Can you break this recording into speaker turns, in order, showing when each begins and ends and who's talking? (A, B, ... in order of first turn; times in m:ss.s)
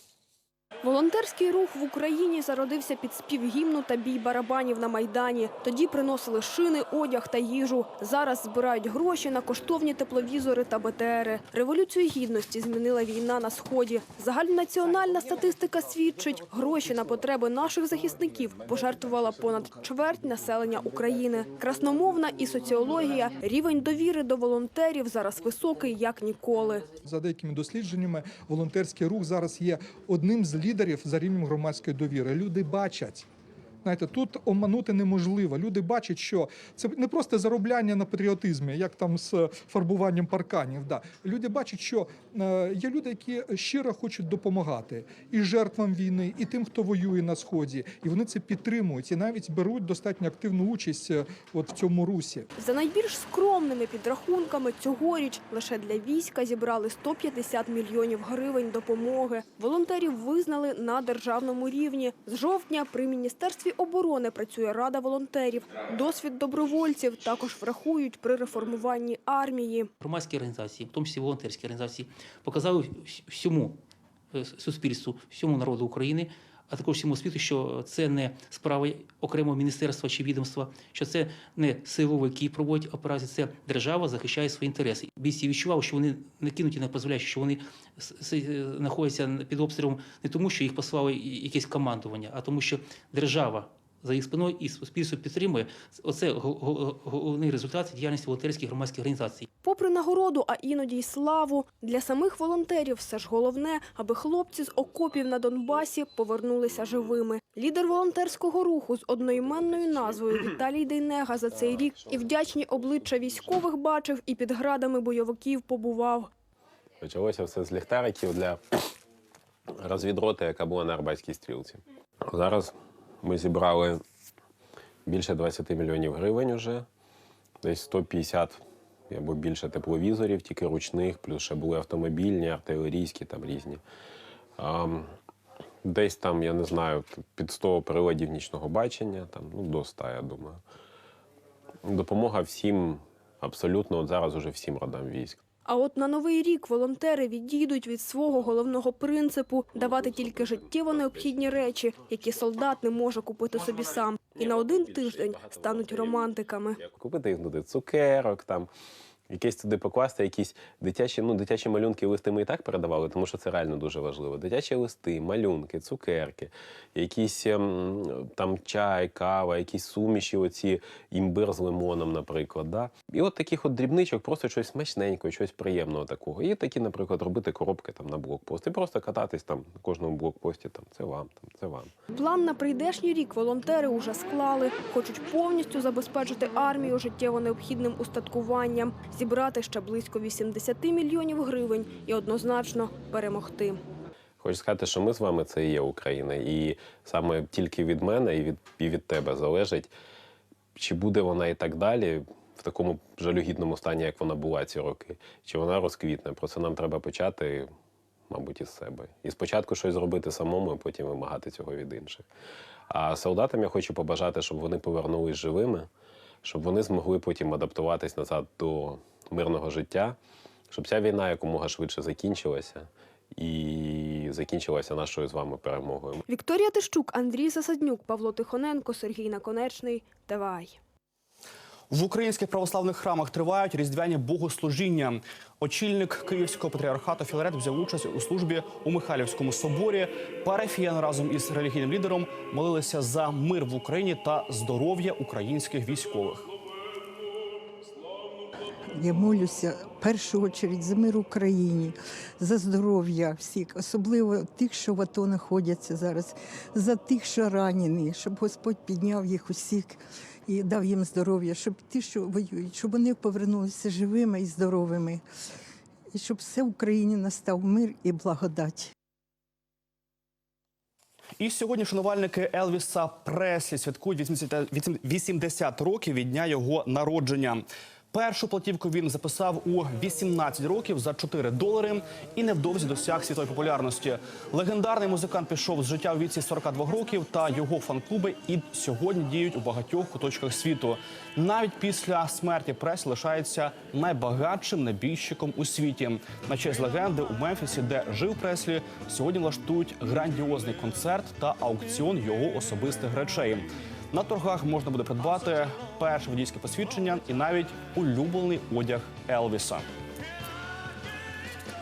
0:00.8-0:26.9 A
0:27.0-0:33.2 B
0:33.8-0:52.5 B
0:52.6-1:09.9 A
1:10.0-1:13.8 C
1:14.3-1:39.5 C
1:39.6-1:56.3 A
1:57.0-1:58.8 D
1:59.7-2:04.0 D
2:05.0-2:06.9 D
2:07.6-2:13.8 D
2:14.6-2:15.1 D
2:15.8-2:20.6 D
2:21.8-2:25.4 D
2:25.6-2:36.8 A
2:29.8-2:31.8 D
2:34.3-2:38.7 D
2:39.3-3:01.9 D
3:02.1-3:13.8 A
3:14.4-3:19.9 D
3:20.8-3:27.7 D
3:28.3-3:32.2 D
3:32.9-3:35.9 D
3:36.4-3:40.2 D
3:40.7-3:46.2 D
3:46.3-3:50.8 A
3:51.9-4:06.4 E
4:09.0-4:20.0 F
4:20.5-4:25.2 F
4:26.1-4:28.9 F
4:31.4-5:09.9 E